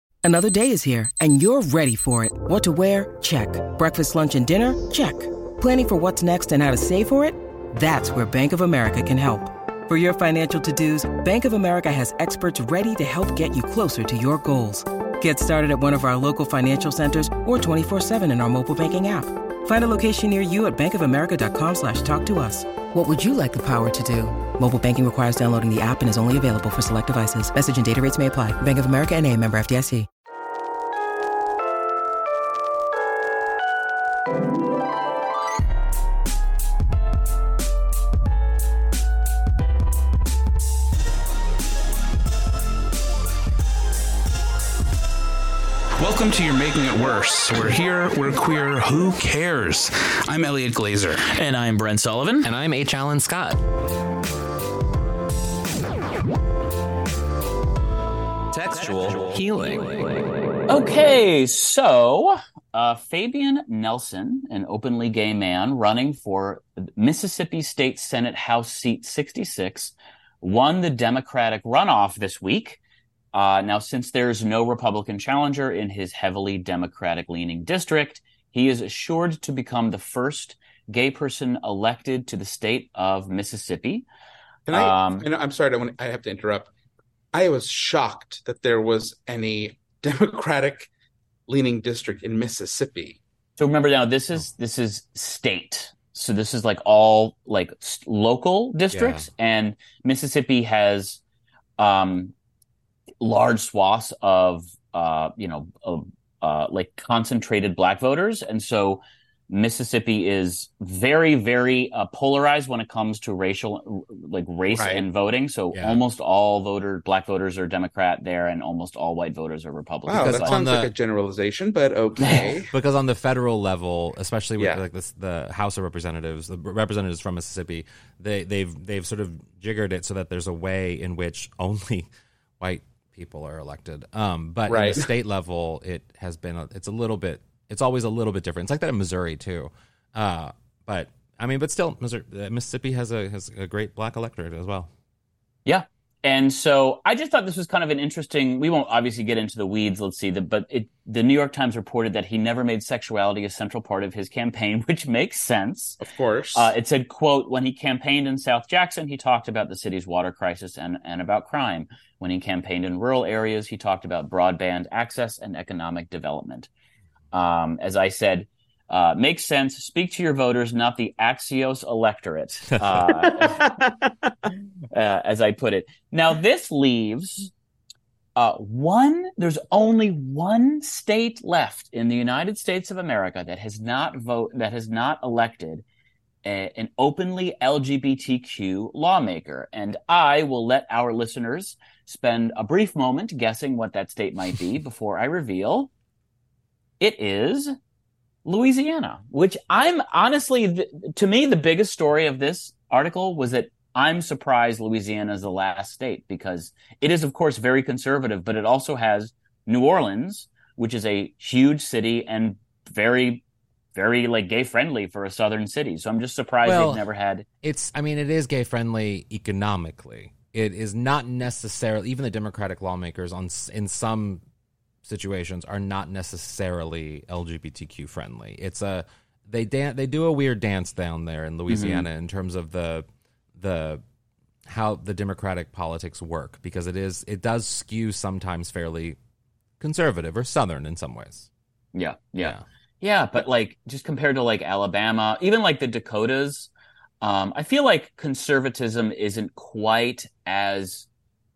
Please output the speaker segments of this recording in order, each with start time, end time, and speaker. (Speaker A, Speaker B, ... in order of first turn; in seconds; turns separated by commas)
Speaker A: 0.2-30.1, Speaker B: 46.0-52.5, Speaker C: 52.4-53.6, Speaker C: 58.5-60.2, Speaker D: 60.7-72.8, Speaker D: 73.3-84.0, Speaker B: 84.7-86.7, Speaker D: 84.7-85.2, Speaker B: 87.3-90.9, Speaker B: 91.5-93.2, Speaker D: 93.6-101.2, Speaker C: 98.9-99.3, Speaker D: 101.8-102.3, Speaker D: 103.2-120.5, Speaker B: 114.7-115.0, Speaker C: 115.7-116.0, Speaker B: 120.1-122.7, Speaker C: 120.1-120.9, Speaker D: 122.2-122.5, Speaker C: 122.7-132.1, Speaker B: 124.6-124.8, Speaker C: 132.6-144.9, Speaker B: 134.7-135.1, Speaker D: 145.7-156.0, Speaker B: 156.0-156.7, Speaker D: 156.5-166.7, Speaker D: 167.3-173.7, Speaker B: 173.3-174.3, Speaker D: 174.9-177.5, Speaker D: 178.3-185.8, Speaker D: 186.4-195.9, Speaker D: 197.0-197.7, Speaker D: 198.4-213.4, Speaker D: 213.9-217.4, Speaker C: 216.6-217.1, Speaker C: 217.6-224.4, Speaker C: 225.0-233.1, Speaker D: 231.7-232.1, Speaker C: 233.6-234.0, Speaker C: 234.7-239.2, Speaker C: 239.8-241.5, Speaker D: 241.9-246.7, Speaker D: 247.2-251.1